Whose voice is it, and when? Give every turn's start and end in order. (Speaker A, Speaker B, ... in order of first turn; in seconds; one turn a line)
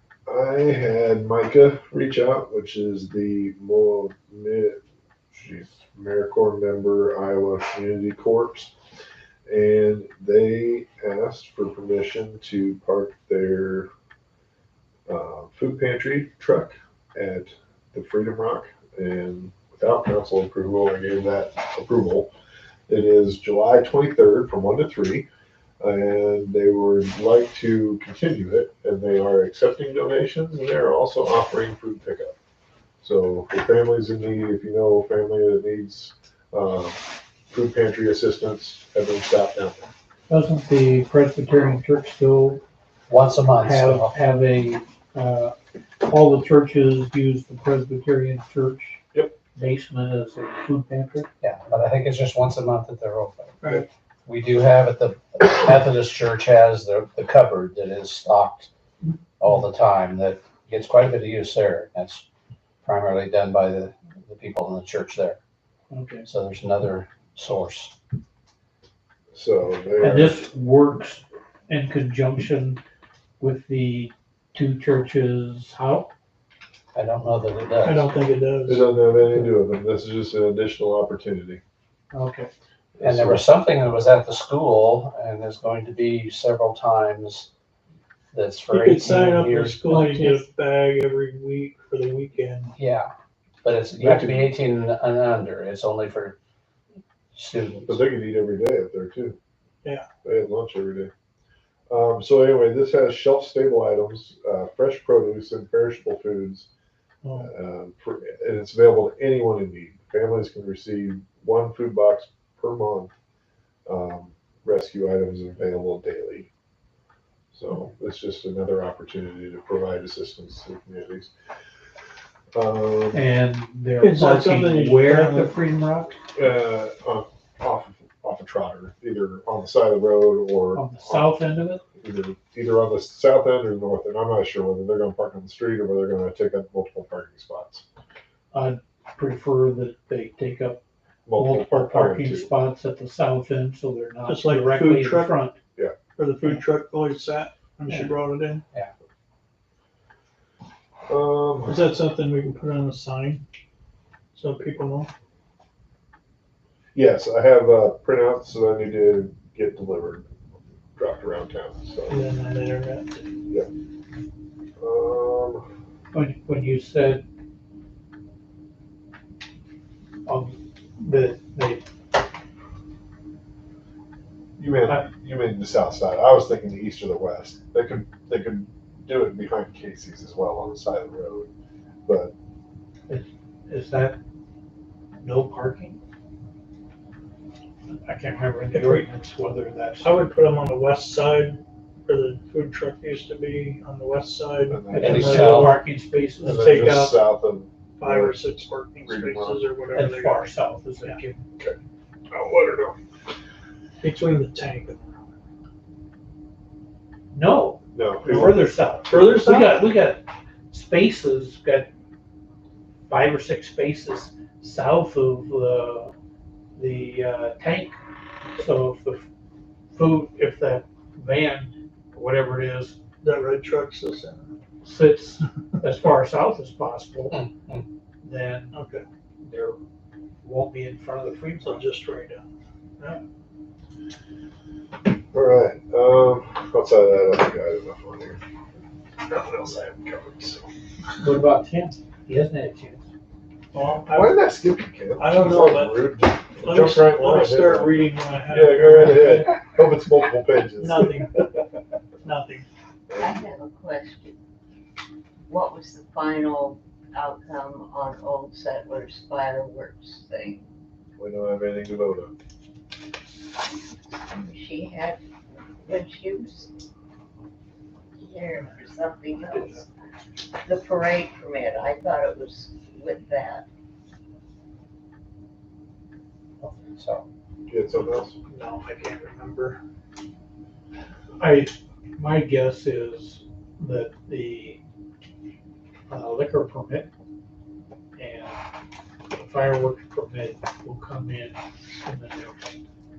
Speaker A: 0.3-8.7
Speaker A: 9.5-13.9
Speaker A: 15.1-22.3
Speaker A: 22.9-25.3
Speaker A: 25.8-32.4
Speaker A: 33.0-39.9
Speaker B: 40.3-42.6
Speaker C: 43.1-44.2
Speaker B: 43.6-51.3
Speaker C: 51.4-53.7
Speaker C: 54.3-58.7
Speaker C: 59.4-62.3
Speaker C: 62.8-65.4
Speaker B: 65.9-66.3
Speaker C: 66.2-67.9
Speaker A: 69.3-70.4
Speaker B: 70.0-72.8
Speaker B: 73.4-76.1
Speaker C: 76.9-78.1
Speaker D: 77.8-78.9
Speaker A: 78.6-81.6
Speaker B: 82.1-82.5
Speaker A: 83.0-83.5
Speaker C: 83.0-87.5
Speaker C: 88.3-90.0
Speaker D: 88.7-92.7
Speaker B: 89.8-90.4
Speaker C: 92.8-93.1
Speaker C: 93.6-96.4
Speaker A: 94.0-94.5
Speaker C: 97.3-98.0
Speaker A: 97.9-99.4
Speaker A: 100.2-101.1
Speaker A: 101.9-106.7
Speaker D: 107.2-107.5
Speaker A: 107.3-113.1
Speaker A: 113.9-116.5
Speaker A: 117.5-121.3
Speaker A: 122.5-123.3
Speaker B: 123.1-126.2
Speaker D: 124.0-125.5
Speaker A: 126.3-137.8
Speaker B: 130.7-131.8
Speaker B: 138.5-140.8
Speaker A: 141.3-142.5
Speaker B: 141.3-145.6
Speaker D: 144.3-145.4
Speaker D: 146.2-148.6
Speaker B: 147.9-148.1
Speaker A: 151.1-151.9
Speaker D: 151.7-153.4
Speaker D: 154.3-155.1
Speaker A: 156.9-160.3
Speaker A: 161.0-162.2
Speaker D: 162.1-163.2
Speaker A: 164.8-165.6
Speaker B: 166.1-167.2
Speaker B: 170.3-171.8
Speaker A: 174.6-181.5
Speaker A: 182.1-182.3
Speaker B: 183.1-184.2
Speaker B: 185.2-186.0
Speaker B: 187.9-190.3
Speaker D: 188.7-189.1
Speaker D: 190.0-195.7
Speaker A: 194.7-195.7
Speaker B: 194.9-196.6
Speaker C: 195.0-195.8
Speaker D: 196.4-197.2
Speaker A: 196.4-199.7
Speaker D: 198.0-200.5
Speaker B: 199.9-201.4
Speaker D: 201.0-201.4
Speaker A: 202.3-203.0
Speaker D: 204.0-205.3
Speaker B: 207.3-211.9
Speaker A: 207.9-208.5
Speaker D: 208.3-209.9
Speaker B: 213.1-216.1
Speaker B: 216.8-218.0
Speaker B: 218.6-219.3
Speaker B: 219.9-223.0
Speaker D: 223.2-224.6
Speaker B: 224.8-227.4
Speaker C: 227.3-227.8
Speaker B: 228.2-228.8
Speaker D: 228.7-229.0
Speaker B: 229.4-229.8
Speaker B: 230.4-231.9
Speaker D: 231.6-232.5
Speaker A: 235.3-238.4
Speaker A: 239.2-240.7
Speaker B: 241.2-243.1
Speaker D: 243.7-244.3
Speaker A: 244.0-251.6
Speaker D: 245.2-246.0
Speaker D: 246.6-249.4
Speaker B: 249.0-249.5
Speaker D: 250.8-251.4
Speaker D: 252.2-252.7
Speaker E: 253.2-254.4
Speaker E: 255.5-260.6
Speaker A: 261.2-262.3
Speaker E: 264.3-265.2
Speaker E: 265.8-266.7
Speaker E: 268.2-269.9
Speaker E: 270.5-273.7
Speaker C: 276.7-277.2
Speaker A: 277.7-278.4
Speaker D: 278.5-279.8
Speaker B: 281.4-284.8
Speaker B: 286.1-287.1
Speaker B: 288.2-288.6
Speaker B: 289.3-292.8